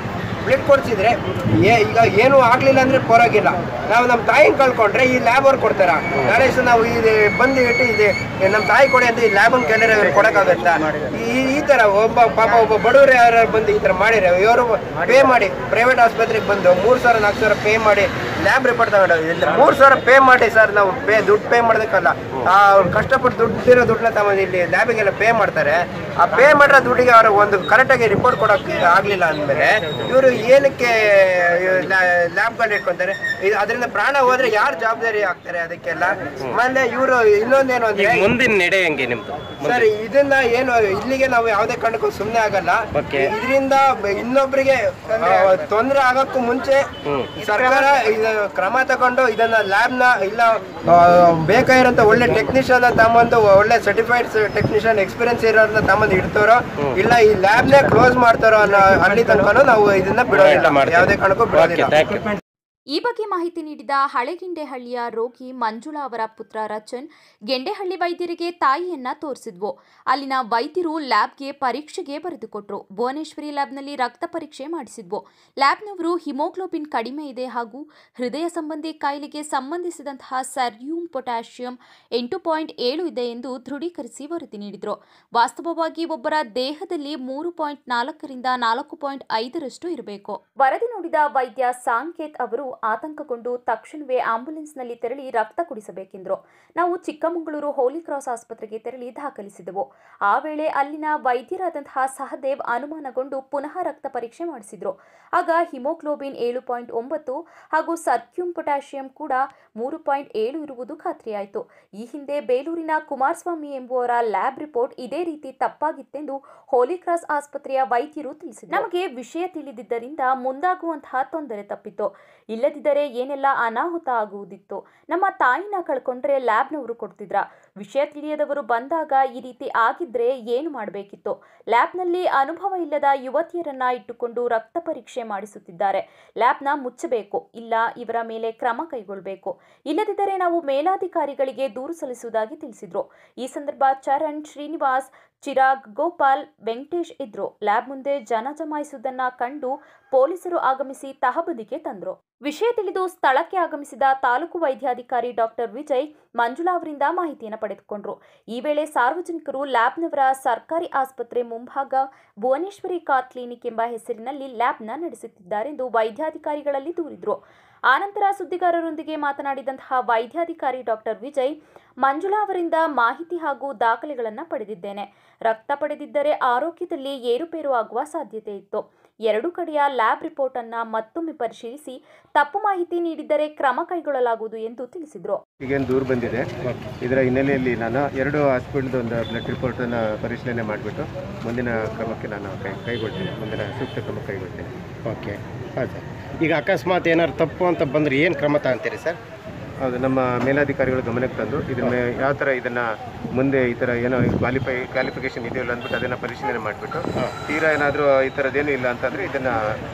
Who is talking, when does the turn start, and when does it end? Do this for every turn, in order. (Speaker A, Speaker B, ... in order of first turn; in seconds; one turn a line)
Speaker A: 0.4-38.3
Speaker B: 10.1-10.6
Speaker B: 38.0-39.9
Speaker A: 39.6-61.9
Speaker B: 42.9-43.3
Speaker B: 47.0-47.7
Speaker B: 60.3-62.4
Speaker C: 62.9-185.4
Speaker D: 185.6-186.5
Speaker B: 186.6-186.9
Speaker D: 187.0-194.7
Speaker B: 195.1-199.2
Speaker D: 199.8-209.8